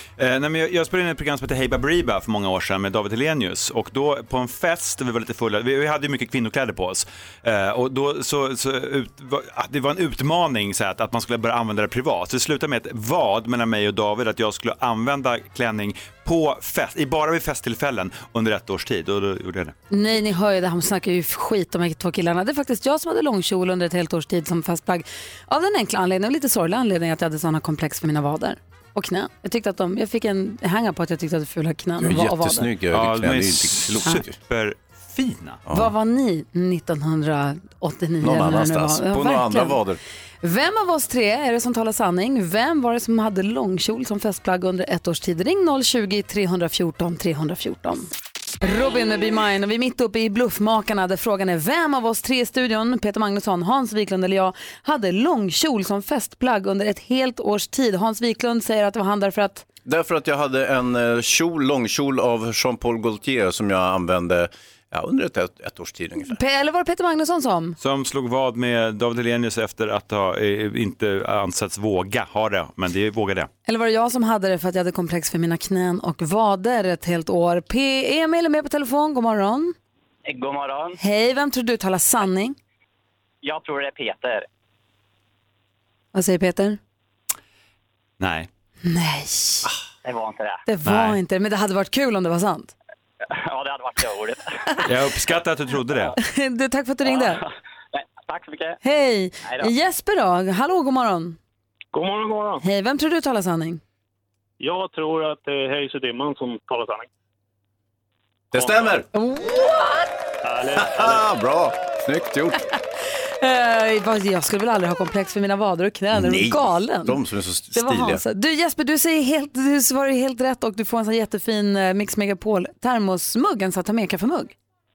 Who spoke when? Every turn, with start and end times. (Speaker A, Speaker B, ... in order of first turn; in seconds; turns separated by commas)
Speaker A: 0.2-19.7, Speaker B: 19.9-32.7, Speaker C: 32.0-34.3, Speaker A: 32.9-35.6, Speaker C: 35.7-35.9, Speaker B: 35.7-39.8, Speaker C: 38.2-40.0, Speaker B: 40.4-48.1, Speaker B: 48.6-59.6, Speaker C: 59.8-66.4, Speaker B: 66.2-67.8, Speaker A: 67.8-73.5, Speaker B: 73.7-79.7, Speaker D: 80.3-81.0, Speaker B: 81.0-82.5, Speaker D: 83.4-84.5, Speaker B: 86.1-86.8, Speaker A: 88.2-88.5, Speaker B: 88.8-89.7, Speaker D: 90.0-90.6, Speaker B: 90.7-92.7, Speaker A: 90.8-91.2, Speaker D: 93.3-94.4, Speaker A: 94.8-96.1, Speaker B: 96.2-97.4, Speaker D: 97.0-98.8, Speaker B: 98.8-101.4, Speaker D: 99.4-99.7, Speaker E: 101.9-102.6, Speaker B: 102.6-103.8, Speaker E: 104.6-107.1, Speaker C: 108.5-109.1, Speaker B: 109.1-110.1, Speaker E: 110.4-111.2, Speaker C: 110.8-112.6, Speaker B: 113.4-117.2, Speaker C: 116.1-118.2, Speaker B: 117.7-124.5